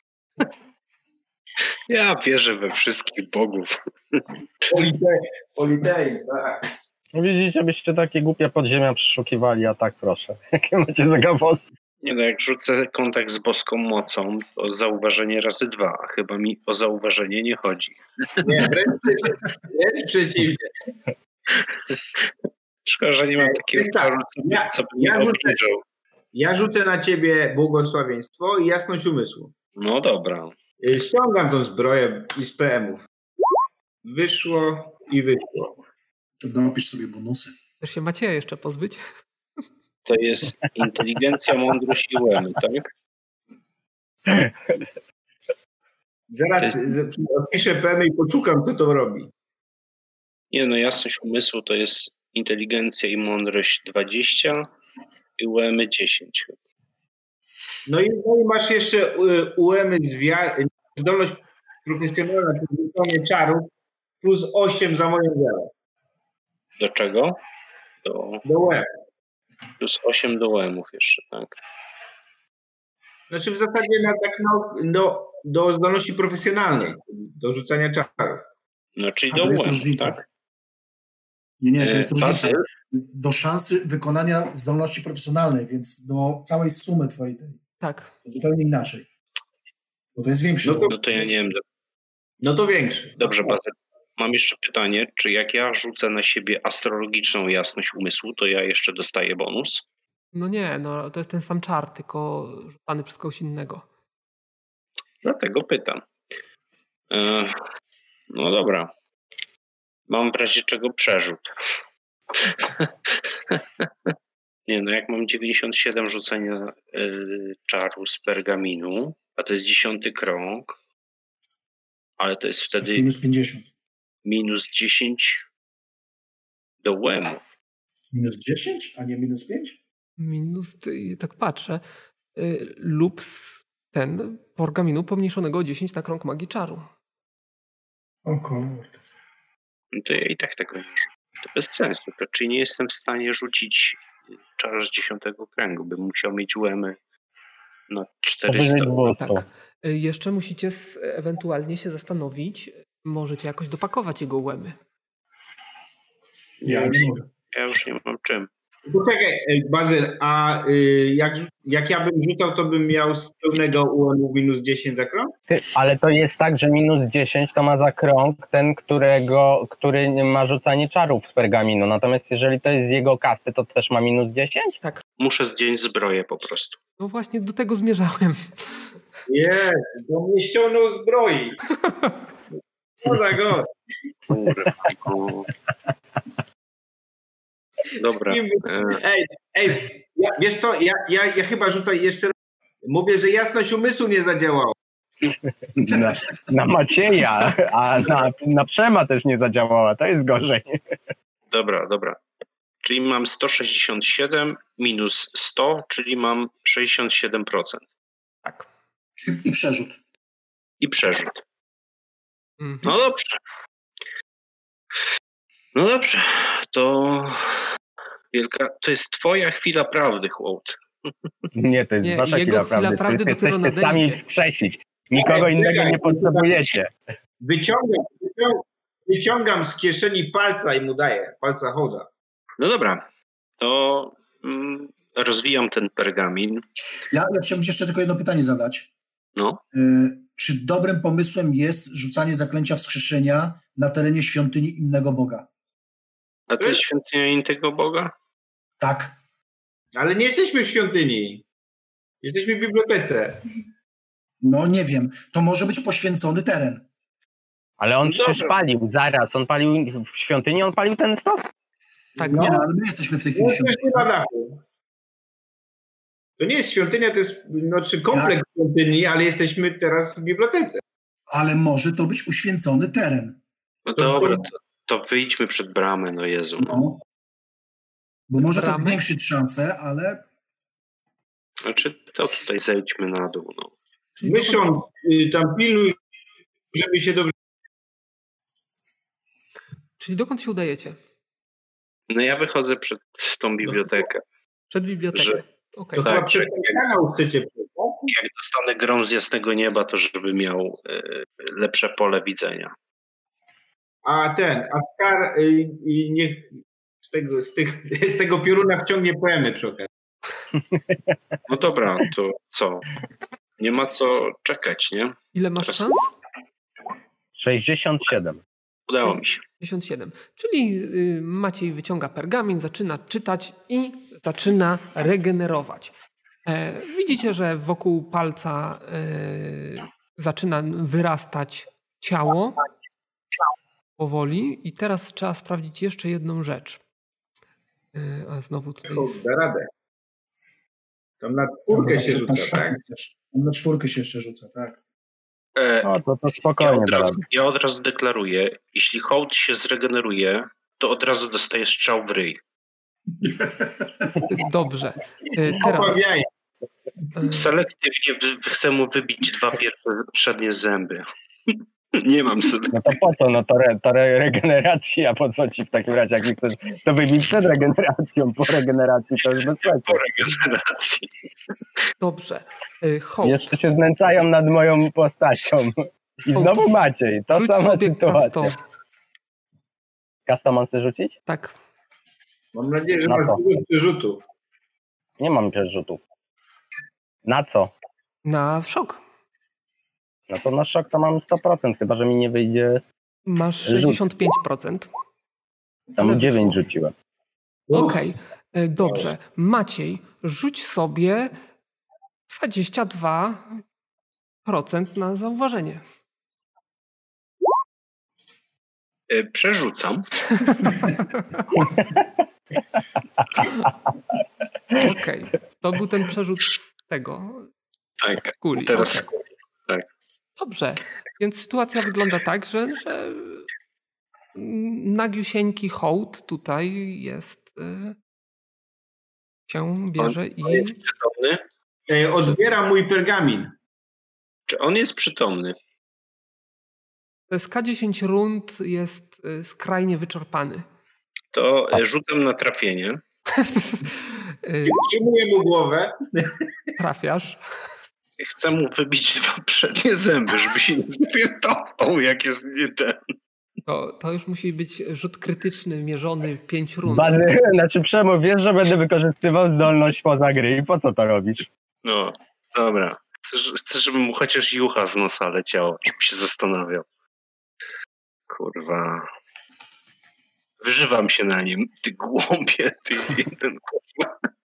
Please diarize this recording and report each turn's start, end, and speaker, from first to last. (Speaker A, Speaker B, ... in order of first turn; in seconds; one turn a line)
Speaker A: 1.9-4.2
Speaker B: 4.7-6.6
Speaker C: 7.1-11.6
Speaker A: 12.0-18.7
Speaker B: 18.4-20.7
Speaker A: 21.6-22.3
Speaker A: 22.9-25.8
Speaker B: 23.4-25.6
Speaker B: 26.3-29.5
Speaker A: 29.8-30.6
Speaker B: 30.8-33.0
Speaker B: 34.0-35.8
Speaker D: 36.4-37.5
Speaker E: 37.8-39.0
Speaker A: 40.1-42.9
Speaker C: 44.3-44.9
Speaker B: 46.3-49.3
Speaker A: 46.6-46.9
Speaker A: 50.5-54.7
Speaker A: 55.4-56.6
Speaker B: 57.9-65.7
Speaker A: 66.8-67.4
Speaker A: 68.0-68.4
Speaker B: 68.5-68.9
Speaker A: 69.8-71.6
Speaker B: 73.3-78.5
Speaker A: 79.0-80.2
Speaker D: 79.3-80.2
Speaker D: 81.6-87.6
Speaker A: 81.8-82.6
Speaker E: 87.8-88.1
Speaker D: 88.2-89.1
Speaker D: 90.2-91.2
Speaker B: 90.6-91.0
Speaker A: 90.9-91.6
Speaker B: 92.4-93.6
Speaker A: 93.2-99.8
Speaker E: 100.3-103.8
Speaker A: 105.2-106.1
Speaker A: 107.1-107.6
Speaker A: 108.3-108.9
Speaker A: 110.1-111.5
Speaker A: 112.4-114.1
Speaker A: 114.7-120.8
Speaker A: 122.2-123.1
Speaker D: 122.8-123.7
Speaker A: 124.2-125.4
Speaker A: 126.8-127.4
Speaker D: 128.1-129.8
Speaker E: 130.2-131.8
Speaker E: 132.4-136.9
Speaker D: 138.2-139.0
Speaker A: 139.9-144.0
Speaker A: 144.6-147.0
Speaker A: 147.9-149.1
Speaker C: 148.5-149.4
Speaker E: 149.2-154.8
Speaker D: 156.7-157.2
Speaker A: 156.7-158.5
Speaker B: 158.9-165.3
Speaker C: 165.5-174.8
Speaker A: 175.2-176.8
Speaker E: 177.0-178.6
Speaker B: 179.3-181.6
Speaker E: 181.8-182.1
Speaker B: 183.0-183.7
Speaker A: 184.3-185.5
Speaker A: 188.0-189.0
Speaker B: 188.2-194.8
Speaker C: 195.3-200.8
Speaker D: 195.8-196.4
Speaker A: 201.5-202.2
Speaker A: 202.8-207.8
Speaker D: 209.2-210.0
Speaker A: 210.8-211.4
Speaker E: 212.6-213.0
Speaker A: 212.8-213.4
Speaker A: 215.8-217.7
Speaker A: 218.3-221.1
Speaker C: 221.5-226.9
Speaker E: 222.0-224.2
Speaker B: 225.1-226.7
Speaker B: 227.4-232.1
Speaker A: 232.6-233.0
Speaker A: 233.6-236.7
Speaker D: 237.1-238.9
Speaker A: 239.4-239.6
Speaker D: 239.7-245.5
Speaker A: 246.5-248.1
Speaker D: 248.8-249.1
Speaker B: 249.9-251.4
Speaker B: 252.2-253.4
Speaker D: 254.4-256.9
Speaker C: 257.8-261.5
Speaker A: 258.0-258.6
Speaker E: 262.2-262.6
Speaker D: 262.2-264.1
Speaker B: 262.3-262.6
Speaker B: 263.3-264.6
Speaker B: 266.4-270.8
Speaker D: 271.3-273.4
Speaker A: 273.9-276.9
Speaker B: 274.0-274.5
Speaker D: 276.6-276.9
Speaker D: 278.3-280.2
Speaker E: 278.4-279.0
Speaker A: 281.6-283.7
Speaker E: 284.2-284.7
Speaker B: 284.2-286.0
Speaker B: 286.7-287.3
Speaker E: 290.0-291.0
Speaker A: 292.1-294.2
Speaker E: 294.7-296.1
Speaker A: 295.1-295.4
Speaker B: 296.0-298.1
Speaker A: 296.0-296.7
Speaker A: 298.1-302.7
Speaker B: 304.0-309.9
Speaker C: 310.7-311.2
Speaker A: 311.5-312.9
Speaker A: 313.6-315.9
Speaker E: 315.3-316.1
Speaker C: 317.4-318.4
Speaker A: 318.9-319.4
Speaker E: 319.0-325.9
Speaker E: 326.4-332.6
Speaker E: 334.0-336.8
Speaker E: 337.9-339.2
Speaker B: 338.9-339.7
Speaker B: 341.2-342.8
Speaker D: 341.7-344.8
Speaker A: 345.6-345.9
Speaker C: 345.8-347.2
Speaker A: 346.6-352.4
Speaker D: 353.3-353.8
Speaker E: 354.2-356.0
Speaker B: 355.5-356.3
Speaker E: 357.1-357.5
Speaker A: 357.3-362.8
Speaker C: 362.7-370.0
Speaker A: 369.9-371.1
Speaker E: 372.0-373.5
Speaker C: 373.2-378.5
Speaker E: 376.3-378.6
Speaker C: 380.3-381.1
Speaker E: 381.3-381.6
Speaker B: 382.5-384.2
Speaker C: 383.1-383.4
Speaker C: 385.2-386.0
Speaker C: 387.2-387.7
Speaker E: 388.2-389.0
Speaker C: 390.3-392.8
Speaker E: 393.3-394.9
Speaker C: 393.6-394.0
Speaker C: 395.9-396.9
Speaker E: 396.0-396.5
Speaker B: 397.7-398.0
Speaker E: 397.7-401.3
Speaker E: 402.3-403.6
Speaker E: 404.4-405.8
Speaker A: 409.1-410.9
Speaker E: 410.4-411.6
Speaker E: 414.7-417.5
Speaker A: 418.0-419.9
Speaker E: 418.4-419.1
Speaker E: 420.4-423.5
Speaker E: 424.4-428.0
Speaker E: 429.5-430.8
Speaker A: 430.0-431.4
Speaker B: 431.9-433.5
Speaker A: 434.5-435.6
Speaker E: 437.3-440.6
Speaker A: 441.3-443.0
Speaker E: 443.3-444.8
Speaker B: 444.6-446.5
Speaker E: 446.8-447.4
Speaker A: 448.2-453.1
Speaker E: 453.7-457.3
Speaker C: 456.9-461.5
Speaker A: 461.8-466.9
Speaker A: 468.3-469.1
Speaker A: 470.6-474.1